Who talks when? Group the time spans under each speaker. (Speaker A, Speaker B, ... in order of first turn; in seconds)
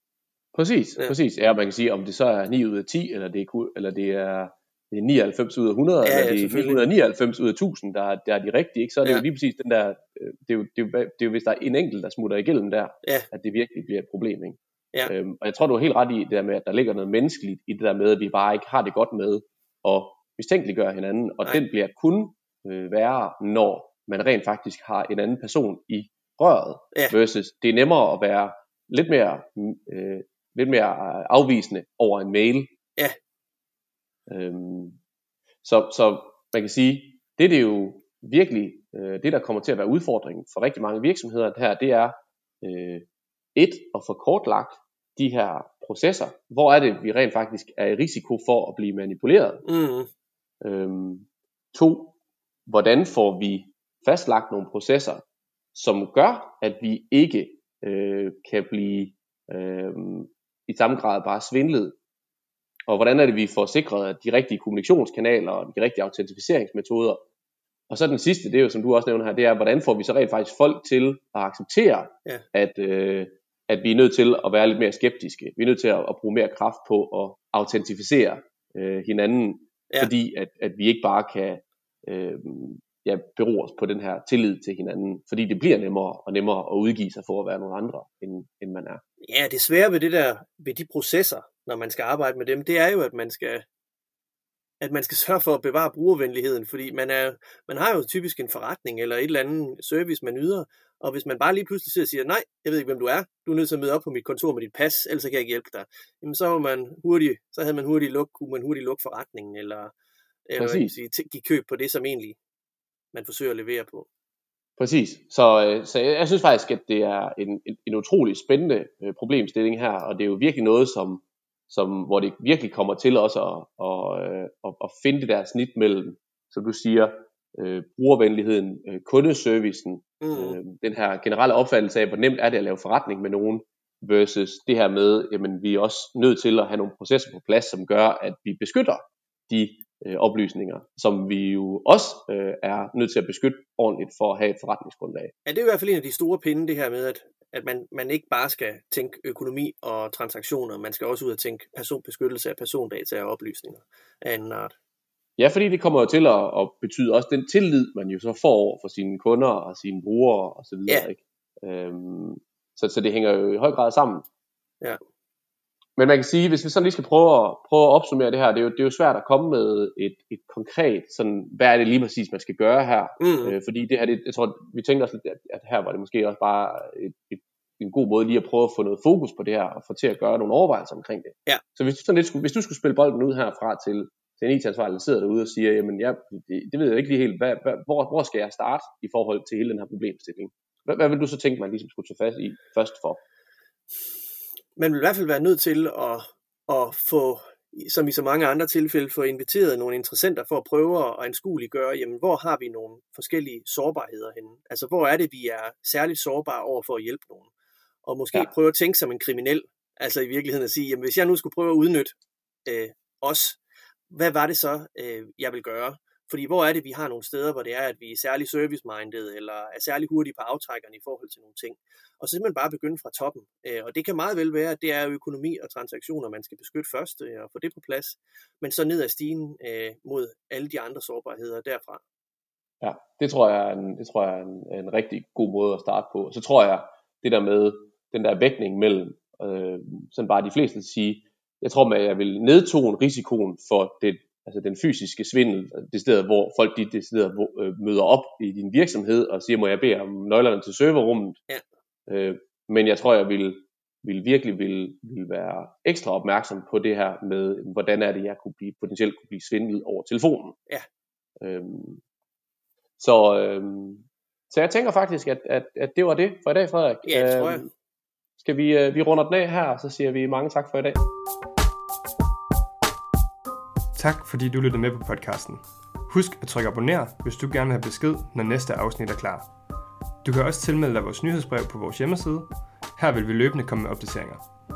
Speaker A: 0.5-32.7, 34.3-35.0, 35.6-49.6, 50.6-52.1, 52.7-55.2, 55.7-61.9, 62.9-67.2, 67.9-89.0, 110.6-110.9, 114.8-145.3, 155.4-164.2, 166.0-193.2, 232.8-251.4, 252.1-260.6, 261.4-262.0, 263.0-267.7, 268.4-271.0
Speaker B: 6.0-6.9, 49.6-50.1, 89.2-93.7, 94.8-109.9, 110.5-112.4, 113.1-114.1, 130.2-130.6, 145.4-154.8, 173.2-173.6, 194.8-207.5, 208.1-213.6, 214.1-232.0, 267.1-267.7
Speaker C: 273.9-279.5, 280.2-284.4